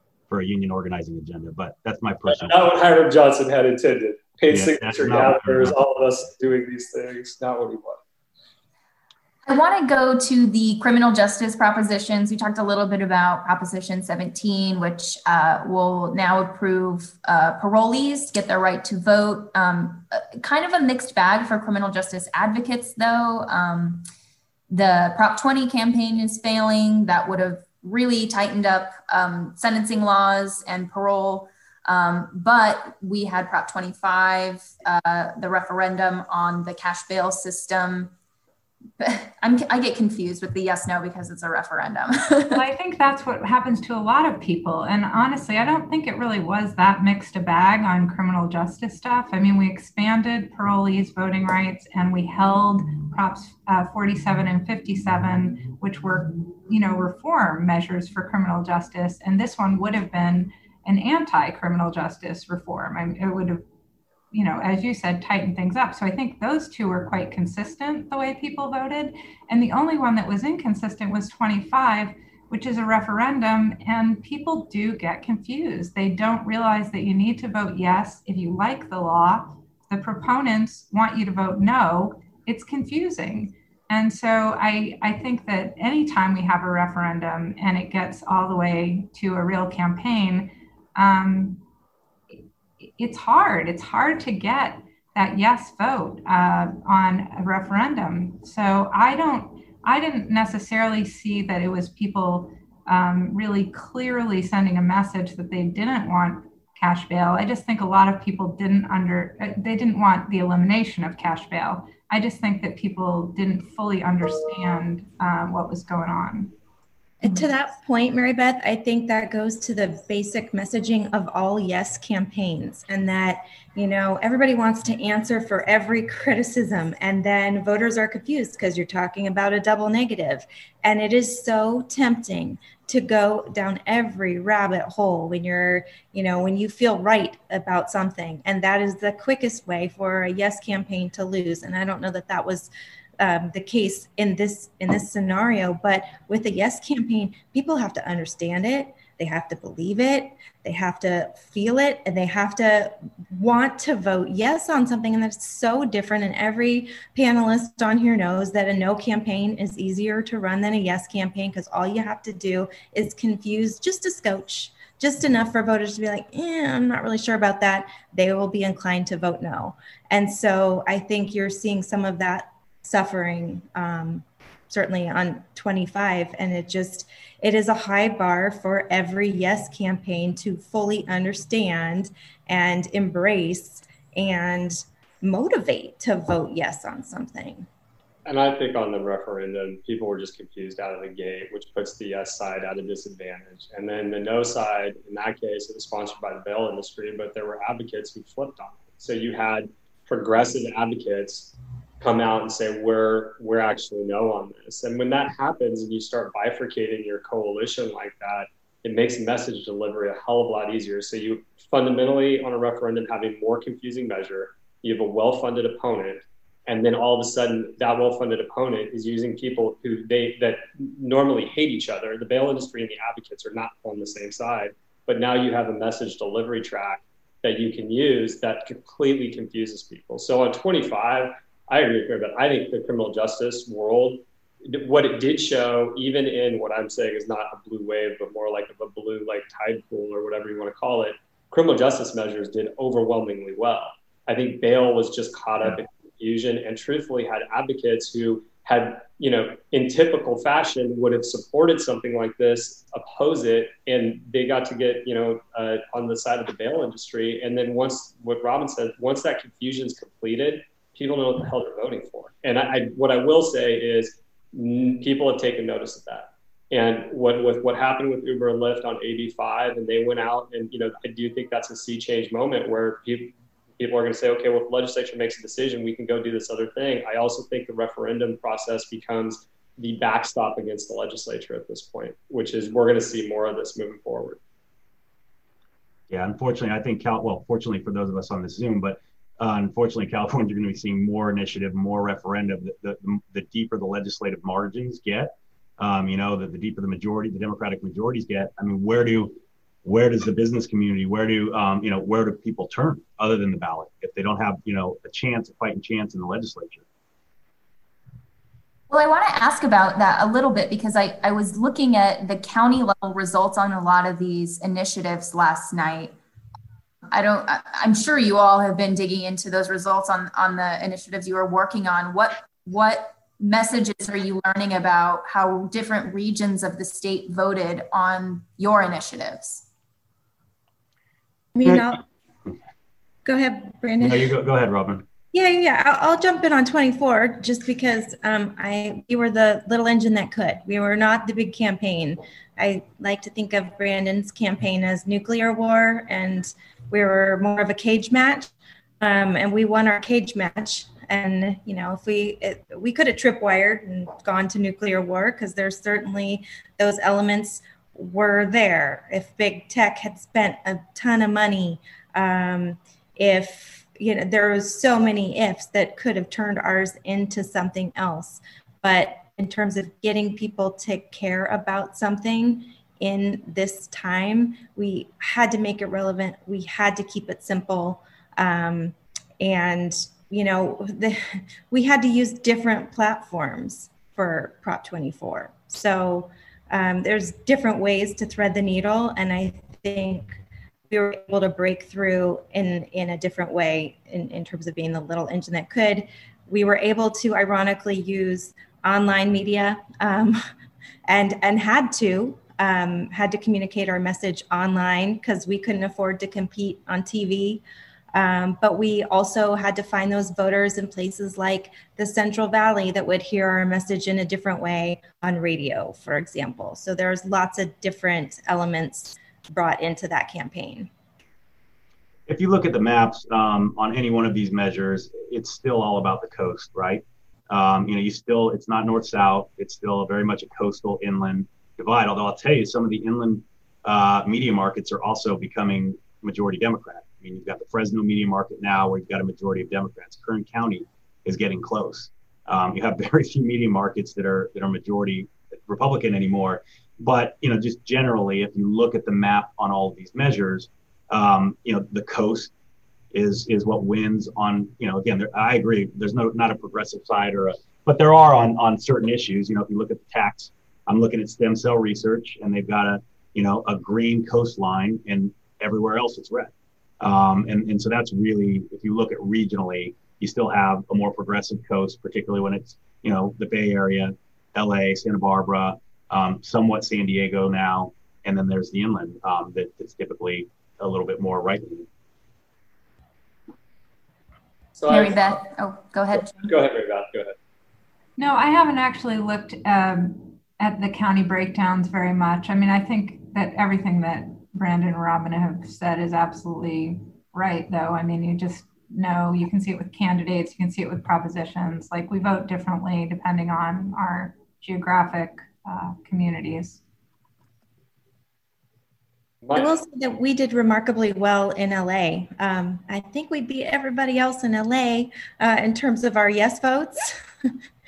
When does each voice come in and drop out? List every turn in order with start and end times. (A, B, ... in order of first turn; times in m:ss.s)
0:00.3-0:02.6 A
0:02.3-0:08.0 B
0:04.5-0:05.8 A
0:09.4-0:24.0 C
0:24.7-0:38.1 C
0:39.0-0:42.6 C
0:42.5-1:03.6 D
1:04.3-1:31.6 D
1:32.8-1:56.5 D
1:57.2-3:07.7 E
3:08.2-4:44.4 B
4:46.1-5:06.8 A
5:08.9-5:16.1 C
5:17.1-5:29.6 C
5:31.5-5:32.0 E
5:33.2-5:34.3 E
5:34.0-5:35.0 A
5:35.3-6:40.4 E
6:41.0-7:00.9 E
7:02.3-7:32.5 A
7:33.1-8:01.9 A
8:04.8-8:05.4 B
8:04.9-8:06.5 C
8:06.1-8:07.4 B
8:08.2-8:26.8 D
8:29.4-8:29.7 B
8:29.5-8:37.5 E